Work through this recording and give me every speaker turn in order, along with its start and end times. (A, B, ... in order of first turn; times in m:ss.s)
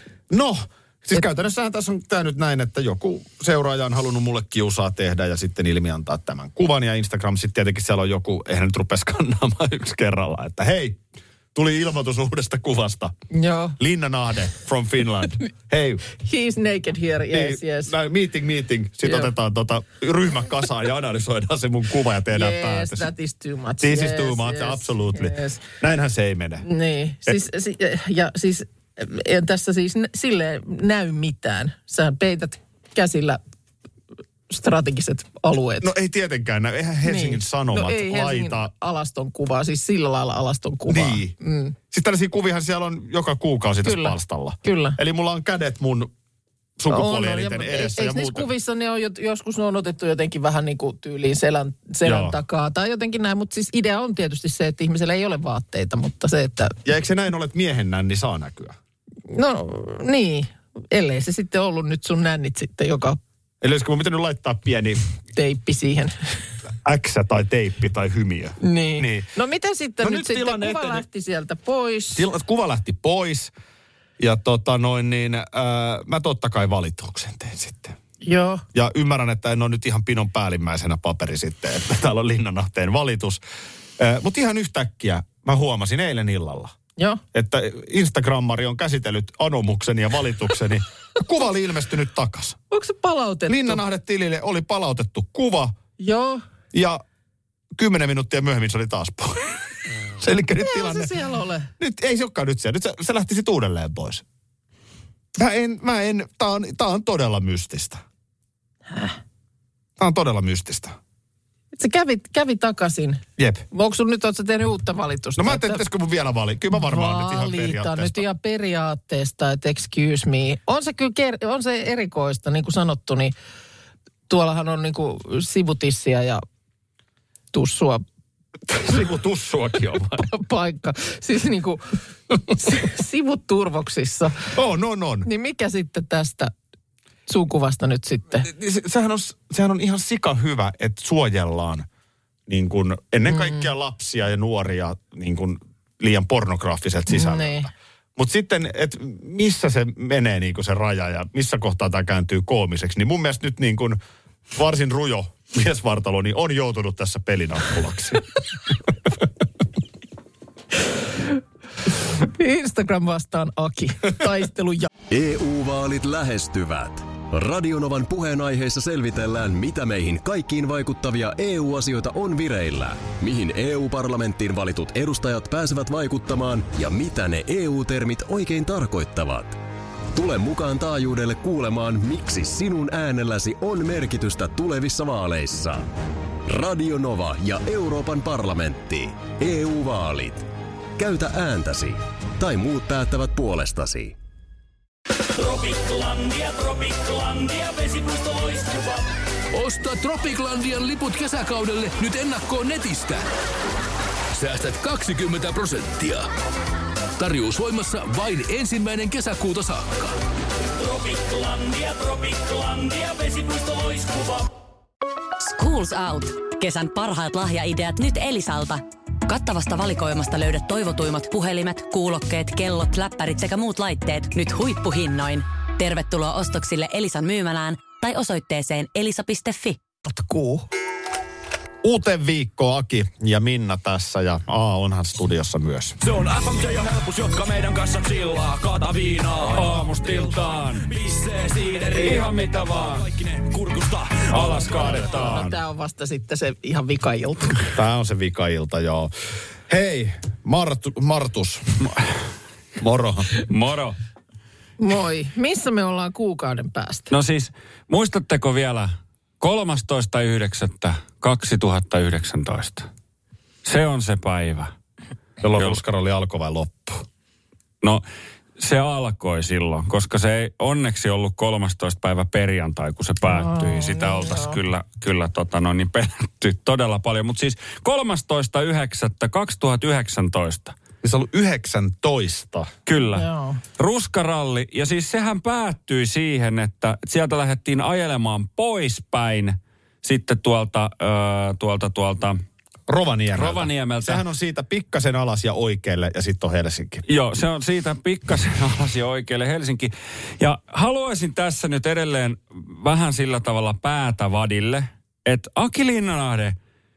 0:00.3-0:11.0 A
0:11.5-0:13.1 A
0:13.3-0:13.8 B
0:13.8-0:16.0 A
0:16.1-0:17.9 B
0:17.3-0:23.1 A
0:19.0-0:19.3 B
0:22.3-0:25.6 B
0:23.8-0:26.6 A
0:26.6-0:33.4 B
0:34.5-0:35.9 B
0:35.8-0:38.7 A
0:37.0-0:41.7 B
0:40.9-0:41.3 A
0:41.9-0:46.1 A
0:43.8-0:45.0 B
0:46.8-0:48.5 A
0:46.9-0:56.8 B
0:52.0-0:52.4 A
0:56.8-0:58.8 A
0:59.3-1:03.2 B
1:03.6-1:05.0 A
1:05.4-1:06.2 B
1:06.8-1:09.3 A
1:08.6-1:12.3 B
1:10.0-1:11.0 A
1:12.1-1:13.5 A
1:14.2-1:18.0 A
1:18.2-1:18.6 B
1:18.7-1:23.4 A
1:24.0-1:26.7 A
1:27.0-1:27.2 B
1:27.3-1:32.6 A
1:32.7-1:33.8 B
1:33.5-1:35.8 A
1:36.0-1:36.4 B
1:36.7-1:37.0 A
1:37.7-1:39.5 A
1:40.2-1:41.1 A
1:40.6-1:41.7 B
1:41.8-1:44.2 A
1:45.3-1:48.0 A
1:48.9-1:49.2 B
1:50.0-1:51.0 A
1:51.7-1:55.8 B
1:53.4-1:53.6 A
1:55.4-1:58.2 A
1:56.7-2:03.3 B
2:04.3-2:06.4 B
2:07.5-2:08.0 B
2:08.7-2:10.3 A
2:10.2-2:11.9 B
2:12.5-2:14.5 B
2:14.5-2:15.3 A
2:15.2-2:16.5 B
2:17.3-2:18.5 B
2:18.4-2:21.9 A
2:22.5-2:34.0 A
2:23.3-2:23.7 B
2:27.1-2:27.7 B
2:34.5-2:38.2 A
2:42.1-2:44.9 B
2:45.1-2:59.6 C
3:00.1-3:05.9 C
3:06.4-3:14.2 C
3:15.3-3:19.1 D
3:19.5-3:23.3 E
3:24.3-3:26.3 E
3:27.2-3:30.1 E
3:30.7-3:34.5 D
3:35.4-3:49.8 F
3:50.0-3:50.7 B
3:51.8-3:56.0 A
3:56.0-4:04.3 D
3:59.4-4:00.9 G
4:01.9-4:03.1 G
4:04.3-4:05.5 G
4:04.3-4:05.6 A
4:05.0-4:07.6 B
4:07.7-4:09.1 A
4:09.7-4:11.9 A
4:12.8-4:13.3 A
4:13.4-4:14.0 G
4:14.8-4:17.1 B
4:17.1-4:22.9 G
4:23.6-4:24.7 G
4:25.4-4:27.0 A
4:28.6-4:40.8 G
4:33.3-4:34.6 B
4:41.0-4:42.7 A
4:42.9-4:52.4 G
4:43.0-4:43.6 B
4:52.9-4:57.0 A
4:53.3-4:54.2 G
4:57.1-5:06.6 G